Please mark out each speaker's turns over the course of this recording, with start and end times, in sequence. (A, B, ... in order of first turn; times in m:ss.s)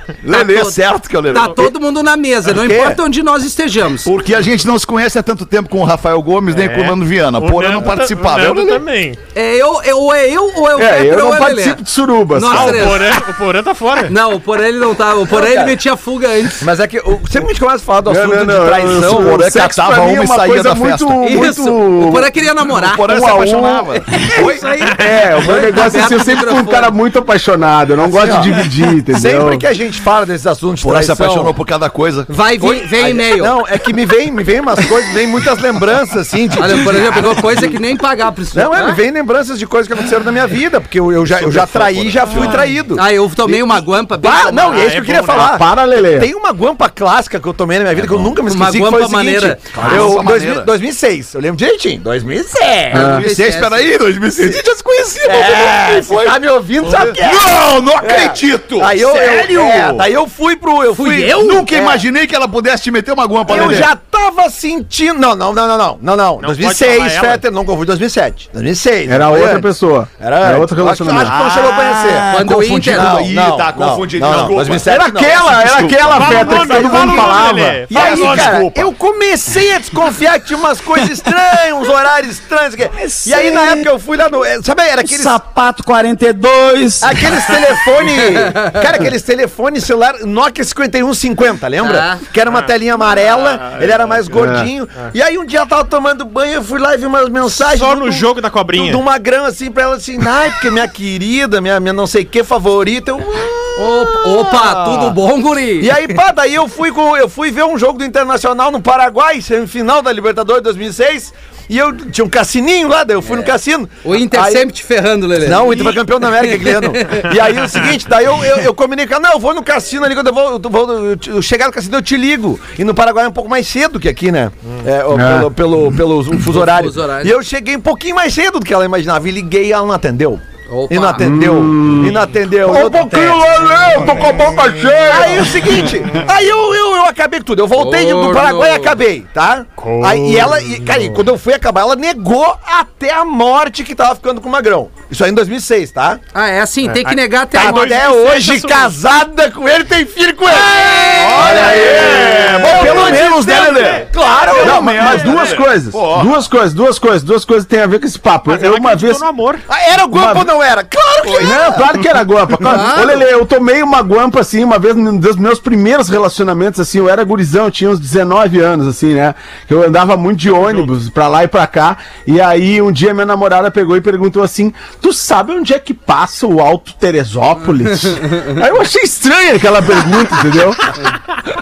0:00.2-0:01.7 A
0:00.3-0:00.8 B
0:01.3-0:04.1 B
0:02.5-0:03.0 C
0:04.0-0:08.8 A
0:06.5-0:09.2 D
0:09.4-0:11.8 B
0:10.8-0:13.0 E
0:12.3-0:13.2 B
0:12.5-0:14.1 D
0:14.1-0:16.7 B
0:15.3-0:15.8 C
0:16.6-0:19.5 C
0:18.0-0:22.3 E
0:19.0-0:21.5 A
0:21.2-0:23.4 B
0:22.6-0:24.8 A
0:23.1-0:29.6 E
0:23.9-0:27.0 B
0:28.1-0:31.6 C
0:30.8-0:32.5 A
0:32.3-0:33.6 B
0:32.6-0:37.8 C
0:36.6-0:39.0 B
0:38.5-0:53.2 C
0:41.2-0:42.7 A
0:43.0-0:44.9 B
0:44.6-0:45.6 D
0:45.3-0:46.3 E
0:47.9-0:48.3 A
0:48.5-0:49.9 B
0:49.7-0:50.7 A
0:52.9-0:53.9 B
0:52.9-0:53.2 E
0:53.1-1:00.1 A
0:55.2-1:02.0 C
1:00.9-1:01.8 B
1:01.3-1:03.9 A
1:03.4-1:09.7 C
1:06.4-1:07.4 D
1:09.1-1:11.4 E
1:10.2-1:12.4 C
1:11.3-1:14.9 A
1:12.3-1:13.3 B
1:12.9-1:15.6 C
1:14.9-1:18.0 E
1:15.4-1:17.3 A
1:16.1-1:18.9 D
1:16.7-1:17.4 C
1:17.9-1:25.4 C
1:18.0-1:18.7 A
1:23.2-1:23.8 F
1:25.0-1:27.3 F
1:27.0-1:45.2 C
1:31.8-1:32.2 B
1:33.6-1:34.1 D
1:34.3-1:34.7 E
1:37.4-1:39.0 D
1:43.8-1:46.2 B
1:45.8-1:54.7 C
1:53.2-1:57.3 B
1:55.4-2:13.4 C
2:05.1-2:05.5 E
2:06.5-2:07.4 B
2:10.7-2:11.3 B
2:11.2-2:15.9 E
2:15.1-2:26.2 C
2:17.8-2:19.0 B
2:19.8-2:21.2 D
2:26.3-2:28.0 B
2:27.0-2:29.0 D
2:27.5-2:35.6 C
2:30.7-2:31.5 B
2:31.0-2:36.3 A
2:32.8-2:34.8 D
2:34.6-2:39.2 E
2:38.5-2:39.6 D
2:39.7-2:41.9 C
2:40.1-2:40.5 E
2:41.2-2:41.6 A
2:41.4-3:01.0 E
2:42.7-2:43.2 C